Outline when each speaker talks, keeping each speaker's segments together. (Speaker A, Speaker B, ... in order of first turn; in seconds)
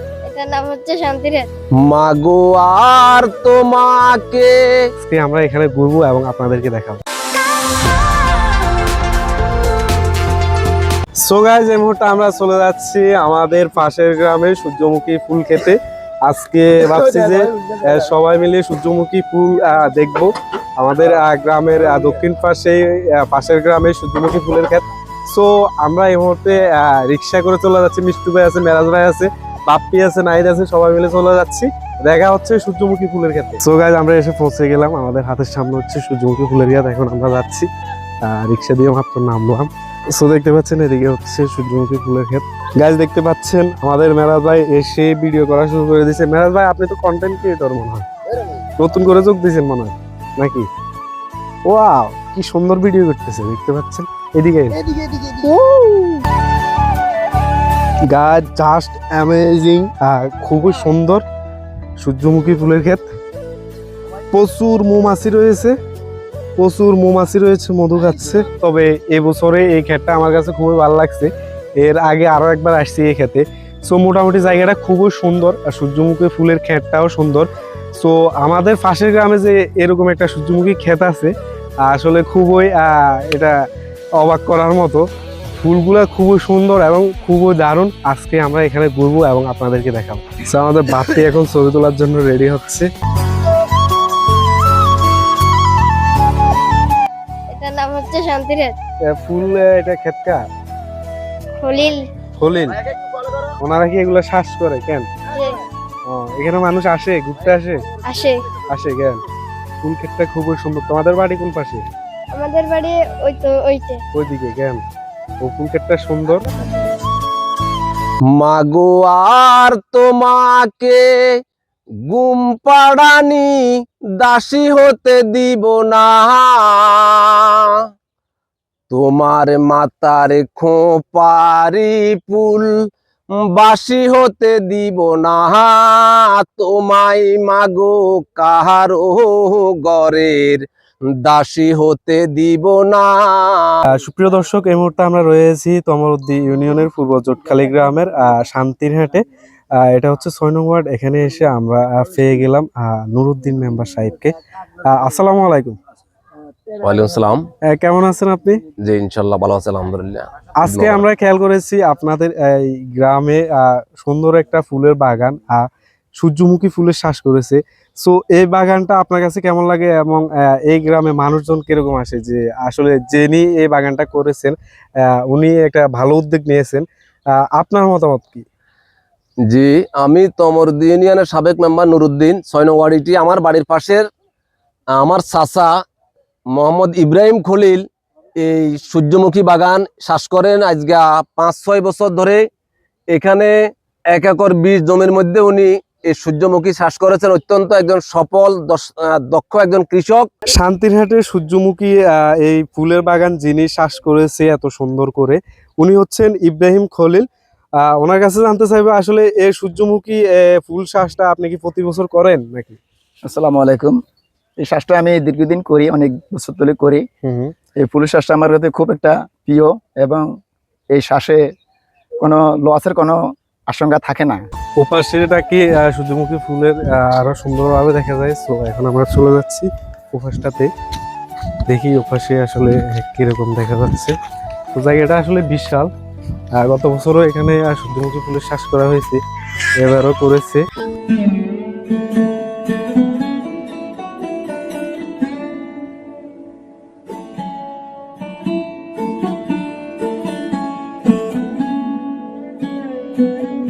Speaker A: 0.3-1.5, 97.5-98.7, 101.6-102.0, 105.3-105.5, 108.1-108.3, 112.3-114.0
Speaker B: 1.8-4.6, 118.3-121.1, 122.1-127.8, 128.9-132.7, 133.4-140.6, 141.2-143.7, 156.8-157.4, 158.8-161.0, 179.5-184.0, 184.9-185.7, 186.5-187.8, 188.4-192.4, 193.1-193.5, 194.1-200.3
Speaker C: 5.0-7.0, 11.2-37.7, 38.2-48.1, 48.8-50.7, 51.6-56.2, 58.1-61.2, 62.0-63.0, 64.3-65.7, 66.6-81.3, 81.8-83.5, 84.2-92.9, 99.1-100.4, 102.4-102.8, 103.6-105.1, 106.1-107.9, 108.7-109.2, 109.8-111.8, 114.1-114.8, 115.4-116.5, 143.9-149.2, 149.8-154.3, 154.9-155.8, 157.7-158.6, 160.6-165.7, 166.2-174.5, 175.3-176.8, 177.4-178.4, 200.5-207.2, 207.8-212.8, 217.2-217.5, 224.8-230.7, 231.7-234.1, 234.7-235.9, 236.5-239.2, 239.8-240.6
Speaker D: 213.3-214.0, 214.6-217.0, 217.8-220.3, 220.9-221.4, 222.2-224.4